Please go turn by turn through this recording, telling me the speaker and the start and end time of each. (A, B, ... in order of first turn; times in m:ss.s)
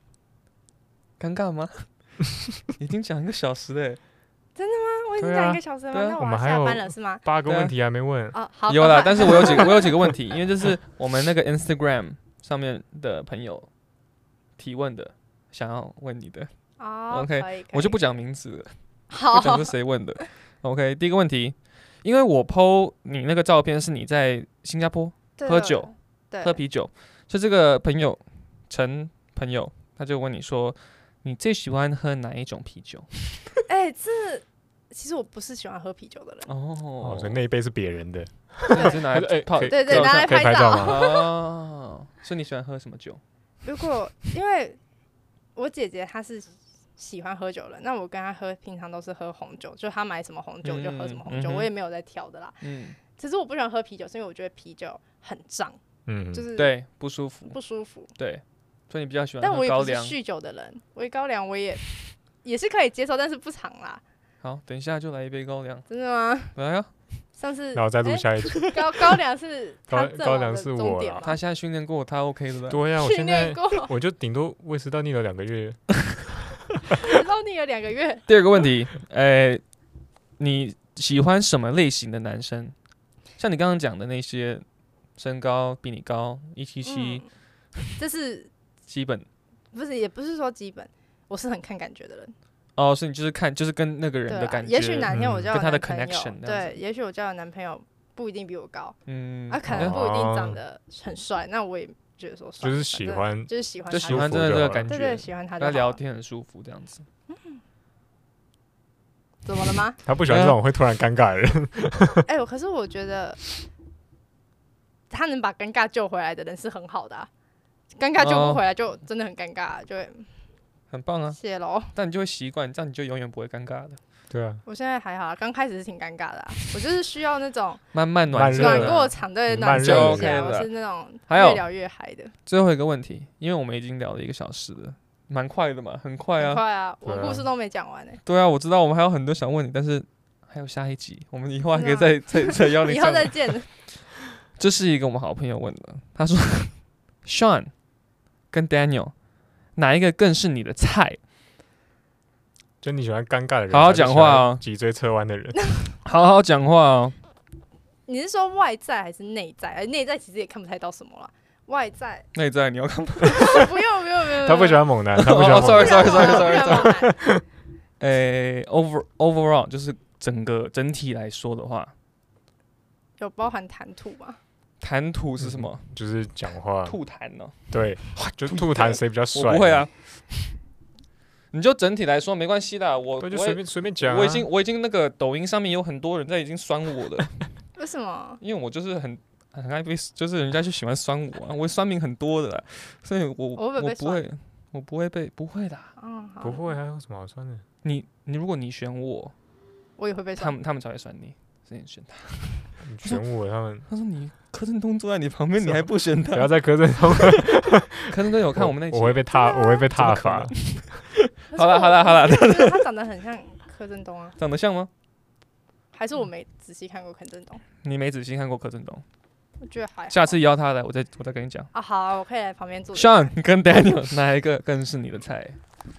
0:01.2-0:02.1 A
0:02.7-0:04.0 A
0:04.6-0:07.2 B
0:05.2-0:08.3 C
0:05.9-0:06.2 A
0:07.4-0:07.7 A
0:08.3-0:10.1 B
0:08.7-0:13.7 A
0:14.6-0:16.5 A
0:16.8-0:18.0 B
0:17.1-0:18.8 A
0:19.1-0:19.7 B
0:19.3-0:33.6 A
0:25.4-0:26.6 B
0:33.6-0:36.5 B
0:36.5-0:37.4 A
0:37.0-0:41.1 C
0:38.7-0:43.2 A
0:39.6-0:41.3 B
0:43.6-0:44.8 B
0:45.6-0:55.8 B
0:50.6-0:51.7 A
0:52.6-0:53.0 A
0:56.1-0:56.5 C
0:56.3-0:56.7 B
0:56.5-0:57.6 A
0:57.5-0:58.1 B
0:58.2-1:00.2 A
0:59.4-1:04.0 B
1:04.4-1:05.8 A
1:05.9-1:06.6 B
1:06.5-1:06.9 A
1:07.4-1:11.4 B
1:07.7-1:09.0 C
1:09.9-1:11.3 C
1:11.2-1:12.8 A
1:12.7-1:17.0 C
1:13.0-1:13.9 B
1:17.0-1:18.3 B
1:18.3-1:19.6 A
1:20.4-1:22.7 A
1:23.4-1:24.6 A
1:25.2-1:27.2 A
1:26.8-1:27.3 B
1:28.0-1:28.5 B
1:28.9-1:29.3 A
1:29.7-1:32.3 B
1:32.8-1:36.8 A
1:34.3-1:46.0 B
1:35.1-1:35.5 C
1:39.1-1:40.0 A
1:39.7-1:40.6 C
1:42.6-1:45.0 C
1:43.9-1:47.0 A
1:47.3-1:47.6 B
1:49.4-1:50.0 B
1:50.0-1:52.2 C
1:50.3-1:50.6 A
1:52.2-1:53.4 B
1:55.1-1:57.3 B
1:58.0-2:00.3 B
1:58.2-1:58.6 A
2:00.9-2:01.4 A
2:01.4-2:01.9 B
2:01.9-2:04.0 A
2:04.3-2:04.6 C
2:04.6-2:07.8 B
2:07.9-2:10.7 A
2:08.3-2:10.4 C
2:08.4-2:12.3 B
2:11.3-2:11.6 A
2:12.4-2:16.6 A
2:16.4-2:18.2 B
2:17.0-2:17.4 C
2:18.2-2:23.9 A
2:21.7-2:23.7 B
2:24.5-2:27.7 A
2:28.5-2:29.1 A
2:29.8-2:31.2 A
2:32.8-2:35.6 C
2:33.7-2:34.6 A
2:36.0-2:37.2 A
2:38.0-2:42.3 B
2:42.3-2:43.7 A
2:43.3-2:44.9 B
2:44.4-2:47.4 C
2:45.2-2:47.0 A
2:45.4-2:47.2 B
2:48.0-2:51.9 A
2:53.2-2:54.4 B
2:54.8-2:56.0 A
2:55.4-2:57.0 C
2:56.8-3:00.5 A
2:57.7-2:59.9 C
3:01.5-3:07.5 A
3:03.2-3:04.5 C
3:07.8-3:08.4 B
3:08.4-3:15.9 A
3:13.6-3:14.2 B
3:16.0-3:16.6 B
3:16.4-3:17.6 C
3:17.8-3:19.3 A
3:20.0-3:20.6 B
3:20.4-3:23.2 A
3:22.8-3:23.8 C
3:23.9-3:26.6 A
3:25.6-3:31.1 C
3:27.1-3:27.4 A
3:28.1-3:29.3 A
3:29.3-3:29.9 B
3:29.9-3:32.9 A
3:31.5-3:34.4 B
3:34.4-3:34.9 A
3:35.9-3:37.6 B
3:37.8-3:39.0 A
3:39.6-3:40.4 B
3:40.1-3:41.7 A
3:41.7-3:43.3 B
3:42.9-3:45.6 A